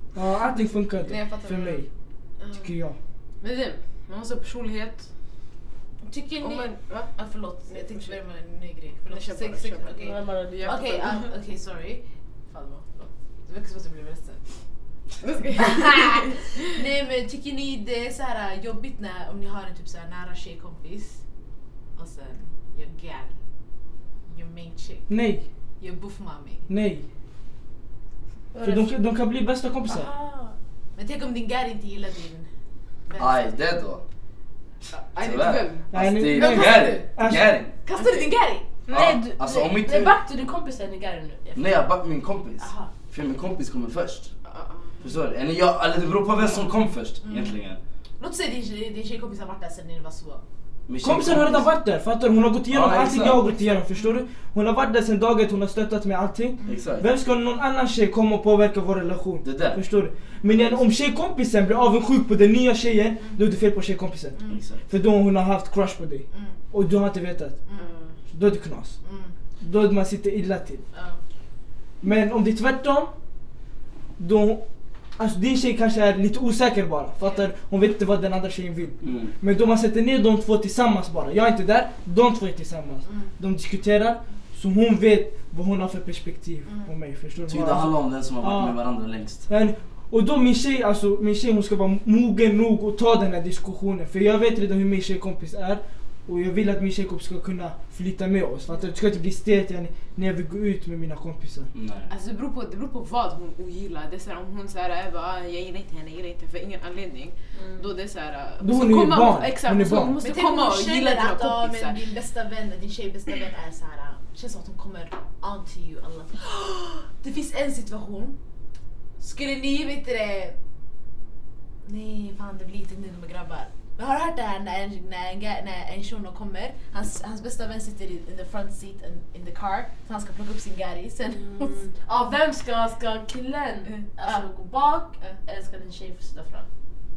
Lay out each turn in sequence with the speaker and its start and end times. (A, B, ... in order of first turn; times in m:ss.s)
0:00.1-0:01.9 A
0:01.1-0:01.8 B
0:02.4-0:02.7 B
0:02.6-0:03.0 A
0:03.4-0:05.0 C
0:06.0-0:14.4 B
0:06.4-0:07.1 C
0:09.0-0:10.1 C
0:10.0-0:11.0 D
0:10.6-0:11.1 C
0:15.2-0:16.3 C
0:15.5-0:21.2 B
0:22.0-0:23.3 B
0:24.3-0:25.1 B
0:25.1-0:25.4 A
0:25.8-0:26.7 B
0:26.7-0:27.0 A
0:28.5-0:29.0 D
0:28.6-0:30.1 A
0:29.9-0:30.5 D
0:30.9-0:32.5 B
0:33.1-0:33.6 B
0:33.2-0:34.0 E
0:34.9-0:35.9 C
0:35.2-0:37.7 E
0:35.9-0:37.5 A
0:36.3-0:36.9 B
0:37.8-0:38.7 B
0:37.9-0:38.2 C
0:38.9-0:40.2 E
0:38.9-0:41.9 D
0:41.5-0:44.3 E
0:42.6-0:42.9 D
0:44.4-0:45.0 C
0:45.0-0:47.8 E
0:47.2-0:47.6 B
0:48.2-0:50.4 B
0:50.9-0:51.7 E
0:51.0-1:04.4 A
0:52.7-0:53.5 E
0:56.6-0:57.0 B
0:56.6-0:57.0 E
0:59.4-0:59.8 E
1:04.3-1:04.6 B
1:04.5-1:04.8 E
1:04.9-1:07.6 A
1:06.3-1:06.6 B
1:07.7-1:07.9 B
1:07.7-1:08.2 C
1:08.3-1:09.0 A
1:09.0-1:09.3 B
1:09.6-1:10.8 A
1:10.9-1:11.2 B
1:12.0-1:13.1 A
1:14.2-1:14.6 A
1:15.2-1:28.8 A
1:17.2-1:17.5 B
1:19.0-1:19.3 E
1:23.0-1:23.3 B
1:26.6-1:26.9 B
1:27.5-1:29.4 E
1:29.5-1:41.7 A
1:41.7-1:42.1 E
1:42.1-1:52.0 C
1:47.6-1:47.8 D
1:48.6-1:50.2 A
1:50.2-1:58.4 B
1:59.2-2:00.6 B
2:01.8-2:11.8 B
2:11.3-2:16.7 D
2:14.2-2:14.4 B